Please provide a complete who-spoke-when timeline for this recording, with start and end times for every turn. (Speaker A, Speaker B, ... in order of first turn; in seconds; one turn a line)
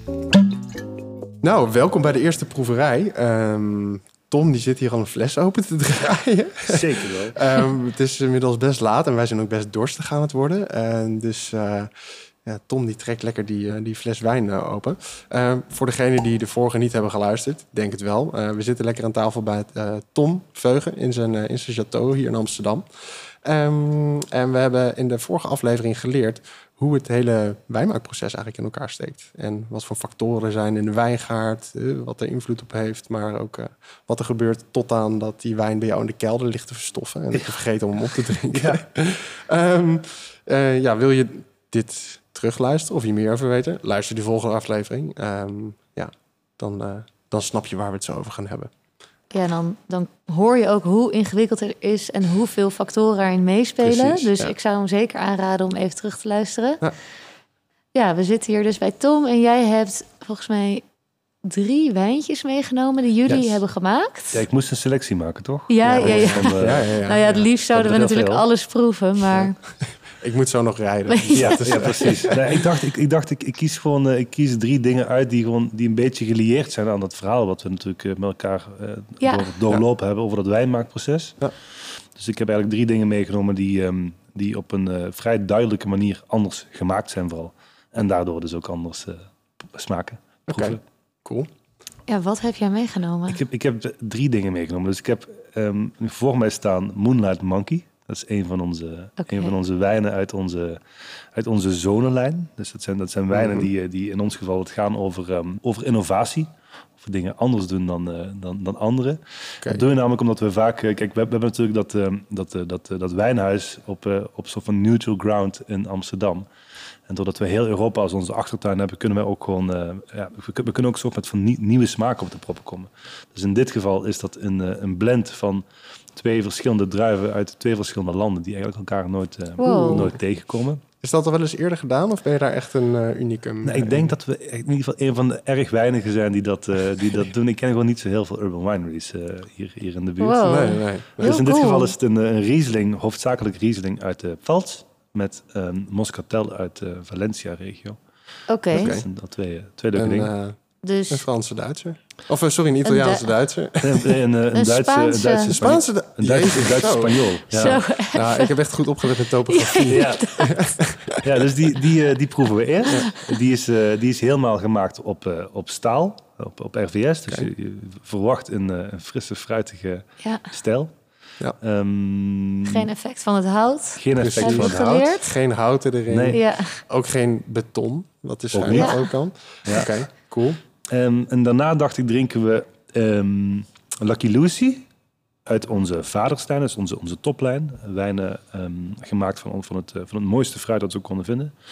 Speaker A: 1.4-48.7
Speaker B: 6.6-7.4
Speaker B: 37.3-38.9
Speaker C: 49.3-56.8
Speaker A: 54.0-54.5
Speaker C: 57.9-60.8
Speaker C: 61.4-64.4
Speaker B: 63.3-63.6
Speaker B: 64.3-66.9
Speaker C: 65.7-69.6
Speaker A: 65.8-67.5
Speaker B: 67.7-68.5
Speaker A: 70.2-72.6
Speaker C: 71.1-72.1
Speaker B: 71.3-81.4
Speaker C: 79.2-79.5
Speaker B: 82.1-90.8
Speaker A: 90.5-91.5
Speaker C: 92.1-93.4
Speaker B: 93.3-100.8
Speaker C: 99.2-99.5
Speaker B: 101.3-116.5
Speaker A: 103.3-103.7
Speaker B: 117.1-130.8
Speaker C: 129.6-130.1
Speaker A: 129.6-130.2
Speaker A: 131.0-134.1
Speaker B: 133.6-140.6
Speaker C: 140.2-141.9
Speaker A: 140.4-141.4
Speaker B: 141.2-148.0
Speaker C: 148.5-148.9
Speaker B: 148.7-150.3
Speaker A: 148.7-149.1
Speaker A: 149.9-150.6
Speaker C: 150.8-151.3
Speaker A: 151.1-154.2
Speaker C: 152.8-153.3
Speaker B: 153.8-157.8
Speaker C: 154.5-155.6
Speaker A: 155.5-161.4
Speaker C: 157.5-160.8
Speaker B: 159.9-160.3
Speaker B: 161.2-170.9
Speaker C: 162.9-163.2
Speaker C: 170.2-170.5
Speaker B: 171.6-172.9
Speaker C: 172.6-175.3
Speaker B: 174.0-175.0
Speaker A: 174.2-180.6
Speaker B: 176.1-176.4
Speaker C: 176.3-176.8
Speaker B: 178.5-179.1
Speaker C: 178.7-179.1
Speaker B: 179.6-180.0
Speaker B: 180.9-184.9
Speaker B: 185.4-191.5